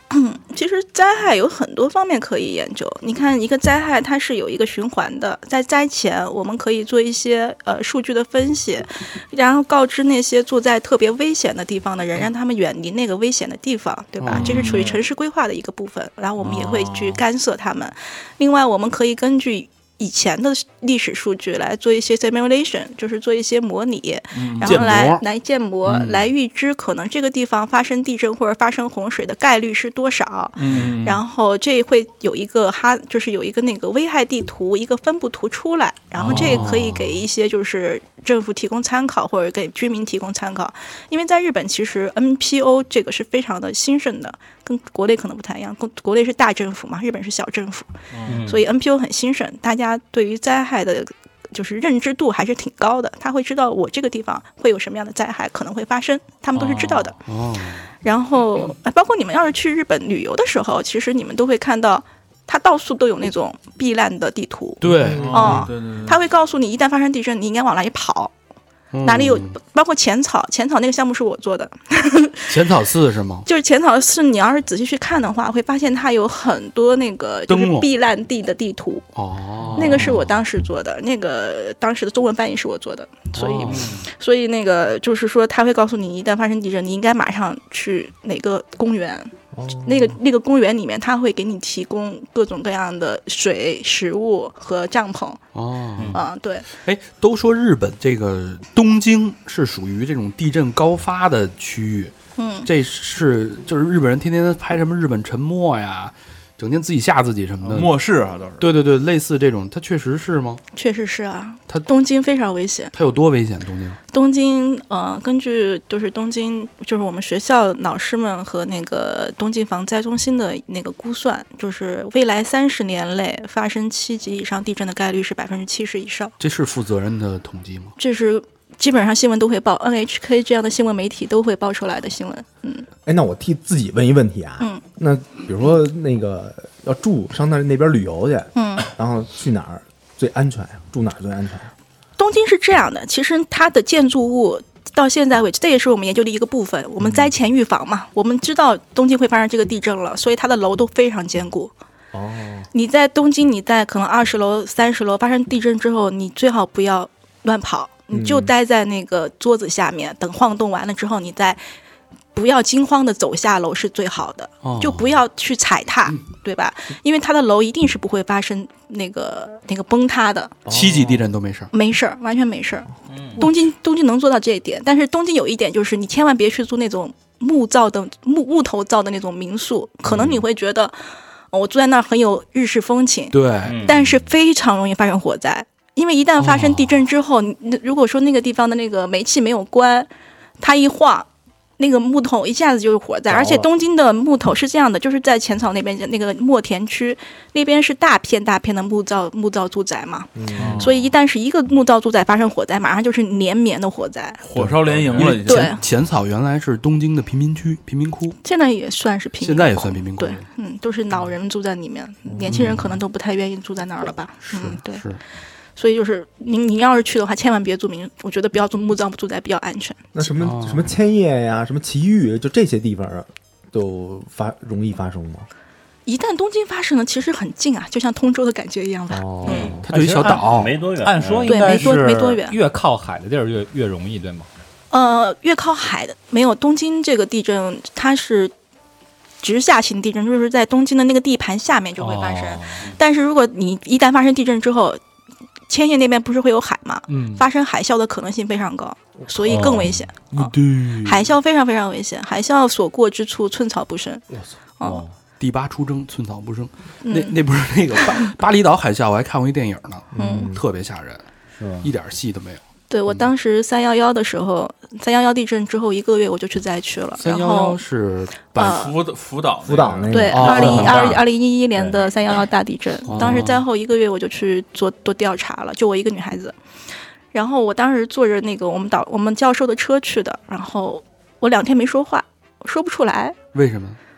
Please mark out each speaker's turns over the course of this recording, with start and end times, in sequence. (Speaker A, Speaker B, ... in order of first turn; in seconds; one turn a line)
Speaker A: 0.1-47.9
Speaker B: 14.2-14.8
Speaker C: 14.3-15.0
Speaker C: 16.4-17.2
Speaker C: 24.4-25.0
Speaker B: 24.6-25.2
Speaker B: 25.9-26.2
Speaker C: 30.6-31.2
Speaker B: 36.2-37.2
Speaker C: 36.2-36.7
Speaker C: 48.1-48.5
Speaker D: 48.3-48.6
Speaker A: 48.5-57.2
Speaker C: 56.6-57.1
Speaker B: 57.3-57.9
Speaker A: 58.0-68.3
Speaker B: 64.8-65.6
Speaker E: 65.0-65.6
Speaker C: 65.0-66.2
Speaker B: 68.9-69.6
Speaker A: 69.0-72.5
Speaker B: 72.5-73.5
Speaker A: 73.5-79.1
Speaker B: 77.5-77.9
Speaker B: 79.2-80.3
Speaker A: 79.8-89.3
Speaker B: 83.3-84.0
Speaker D: 83.7-84.0
Speaker E: 89.5-90.2
Speaker A: 89.8-95.4
Speaker B: 95.5-96.2
Speaker A: 96.1-96.7
Speaker B: 96.8-102.1
Speaker A: 102.4-102.7
Speaker B: 102.7-107.9
Speaker C: 107.6-108.8
Speaker B: 108.6-110.6
Speaker A: 110.8-112.9
Speaker B: 112.9-114.0
Speaker A: 114.1-126.3
Speaker B: 126.4-127.9
Speaker A: 128.0-132.9
Speaker E: 133.1-141.7
Speaker A: 138.6-138.9
Speaker A: 142.2-151.7
Speaker E: 152.1-152.7
Speaker A: 152.7-161.6
Speaker E: 158.1-158.5
Speaker A: 162.3-170.6
Speaker B: 164.6-165.2
Speaker E: 170.7-171.2
Speaker B: 170.7-171.7
Speaker A: 171.7-181.0
Speaker D: 173.1-173.4
Speaker A: 181.5-190.1
Speaker B: 183.3-183.9
Speaker D: 183.7-184.0
Speaker B: 186.4-186.9
Speaker A: 190.6-191.3
Speaker A: 191.8-204.4
Speaker E: 200.3-200.9
Speaker C: 200.6-200.9
Speaker C: 204.4-205.8
Speaker B: 204.6-208.4
Speaker E: 204.6-205.0
Speaker A: 205.2-205.8
Speaker A: 208.4-215.0
Speaker B: 209.4-210.4
Speaker E: 212.3-212.8
Speaker B: 212.5-212.9
Speaker B: 214.4-215.2
Speaker A: 215.8-220.1
Speaker E: 220.1-225.5
Speaker B: 220.4-220.9
Speaker A: 226.1-229.7
Speaker E: 229.1-229.9
Speaker D: 229.4-232.3
Speaker B: 229.9-230.8
Speaker F: 231.0-234.5
Speaker A: 231.4-232.6
Speaker A: 234.9-238.5
Speaker A: 239.4-245.0
Speaker F: 242.0-242.8
Speaker A: 245.7-254.2
Speaker F: 247.1-247.4
Speaker E: 249.2-249.5
Speaker D: 249.5-250.0
Speaker B: 250.3-251.3
Speaker D: 254.8-255.1
Speaker B: 255.4-261.2
Speaker A: 257.0-257.4
Speaker E: 260.1-260.6
Speaker A: 260.2-260.5
Speaker D: 261.6-261.9
Speaker B: 261.8-262.6
Speaker A: 262.9-267.8
Speaker B: 267.2-268.8
Speaker A: 268.6-268.9
Speaker C: 268.6-271.2
Speaker E: 269.6-270.8
Speaker A: 270.1-276.6
Speaker B: 270.3-271.2
Speaker B: 273.1-273.6
Speaker A: 277.3-283.4
Speaker B: 283.5-284.0